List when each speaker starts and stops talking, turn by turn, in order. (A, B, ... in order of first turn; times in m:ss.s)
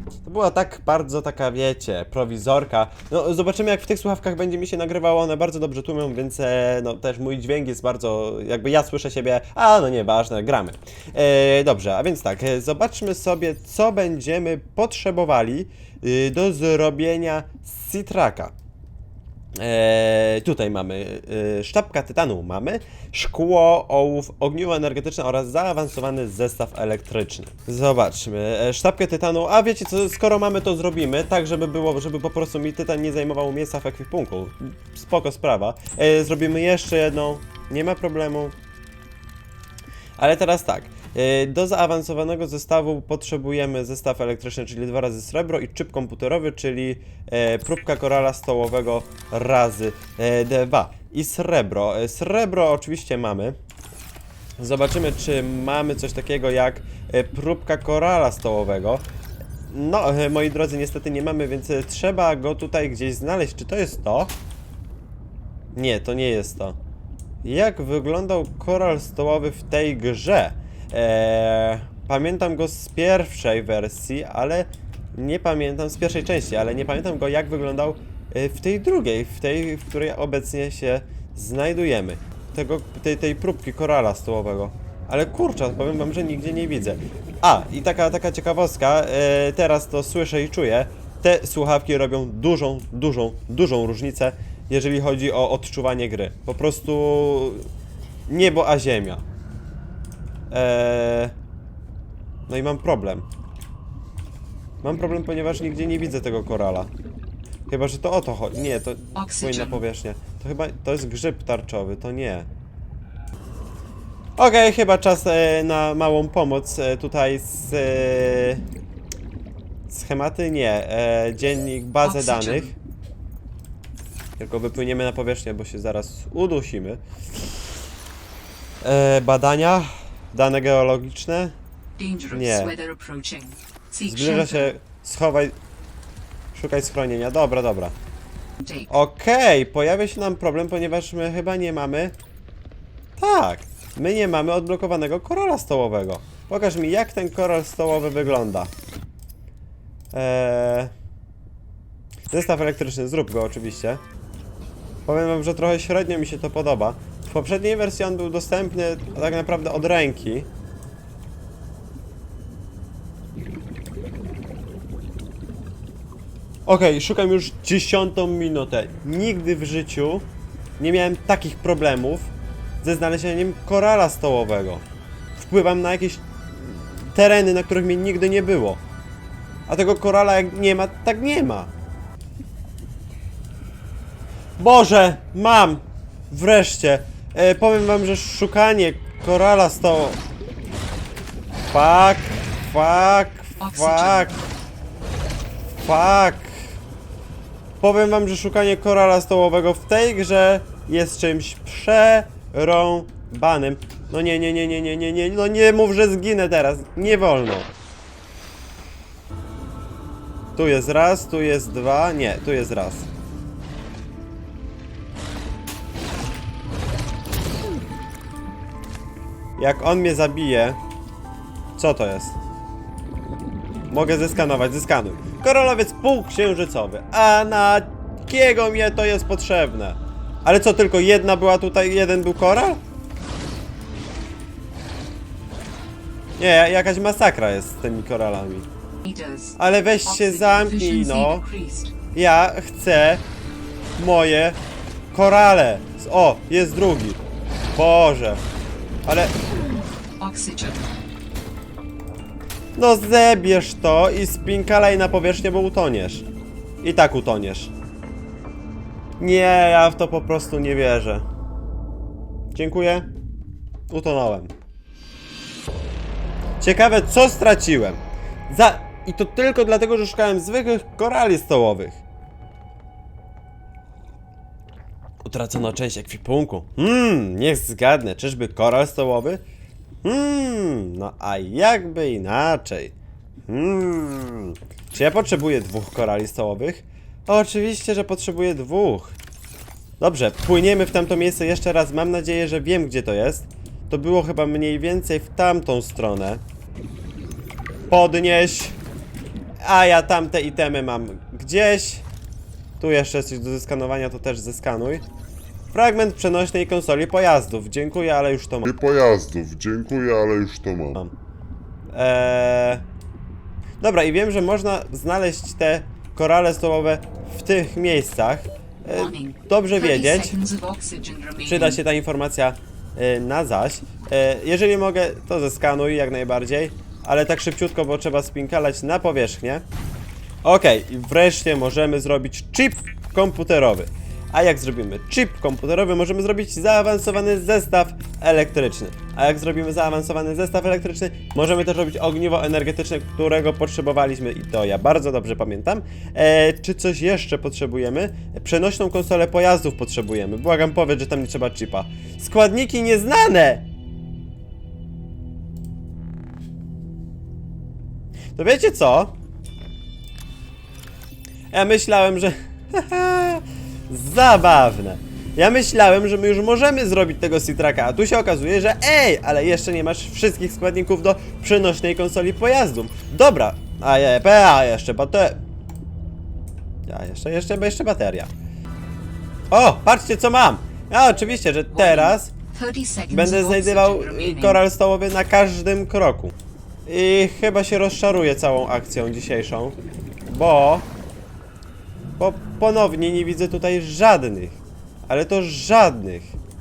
0:00.2-0:18.5 A
0:19.6-0:38.5 A
0:40.2-0:53.6 A
0:54.6-0:59.0 A
0:59.7-1:04.3 A
1:05.7-1:06.8 A
1:07.4-1:37.7 A
1:38.3-1:39.2 A
1:40.5-1:41.3 A
1:42.5-1:43.3 A
1:44.8-1:46.9 A
1:47.7-1:52.5 A
1:49.2-1:49.8 B
1:54.4-1:58.6 A
1:59.9-2:02.8 A
2:02.0-2:02.7 B
2:04.4-2:07.0 A
2:08.8-2:11.6 A
2:12.0-2:14.7 B
2:12.3-2:12.7 A
2:14.1-2:15.6 A
2:16.5-2:18.0 A
2:18.6-2:18.9 B
2:18.9-2:22.1 A
2:23.2-2:28.7 A
2:30.1-2:30.9 A
2:32.3-2:34.0 A
2:35.1-2:40.5 A
2:46.7-2:50.3 A
2:50.8-2:52.3 A
2:52.8-2:54.8 A
2:55.4-2:58.8 A
2:59.7-3:01.7 A
3:04.6-3:10.2 A
3:11.7-3:14.4 A
3:13.6-3:14.4 B
3:15.8-3:16.6 A
3:17.8-3:27.7 A
3:30.6-3:33.1 A
3:39.6-3:40.8 A
3:41.8-3:42.4 A
3:43.9-3:52.8 A
3:56.4-3:58.7 A
3:59.0-4:02.0 B
3:59.6-4:01.4 A
4:02.1-4:03.2 A
4:04.0-4:04.6 A
4:05.1-4:07.2 A
4:07.7-4:08.4 A
4:09.1-4:09.4 A
4:10.2-4:10.9 B
4:12.8-4:16.2 A
4:16.8-4:17.7 A
4:19.2-4:21.3 A
4:22.6-4:23.1 A
4:23.9-4:24.5 A
4:26.6-4:32.0 A
4:35.2-4:39.4 A
4:40.0-4:42.9 A
4:43.5-4:49.1 A
4:50.0-4:56.4 A
4:57.9-4:58.8 A
4:59.6-5:02.0 A
5:02.8-5:05.0 A
5:05.7-5:08.7 A
5:08.6-5:11.0 C
5:11.9-5:12.8 A
5:13.8-5:20.4 A
5:18.9-5:21.8 B
5:21.4-5:29.6 A
5:30.4-5:53.6 A
5:58.4-5:59.1 A
6:01.5-6:15.4 A
6:16.9-6:18.3 A
6:19.5-6:22.3 A
6:21.7-6:24.6 B
6:23.1-6:26.4 A
6:26.9-6:30.9 A
6:32.2-6:36.4 A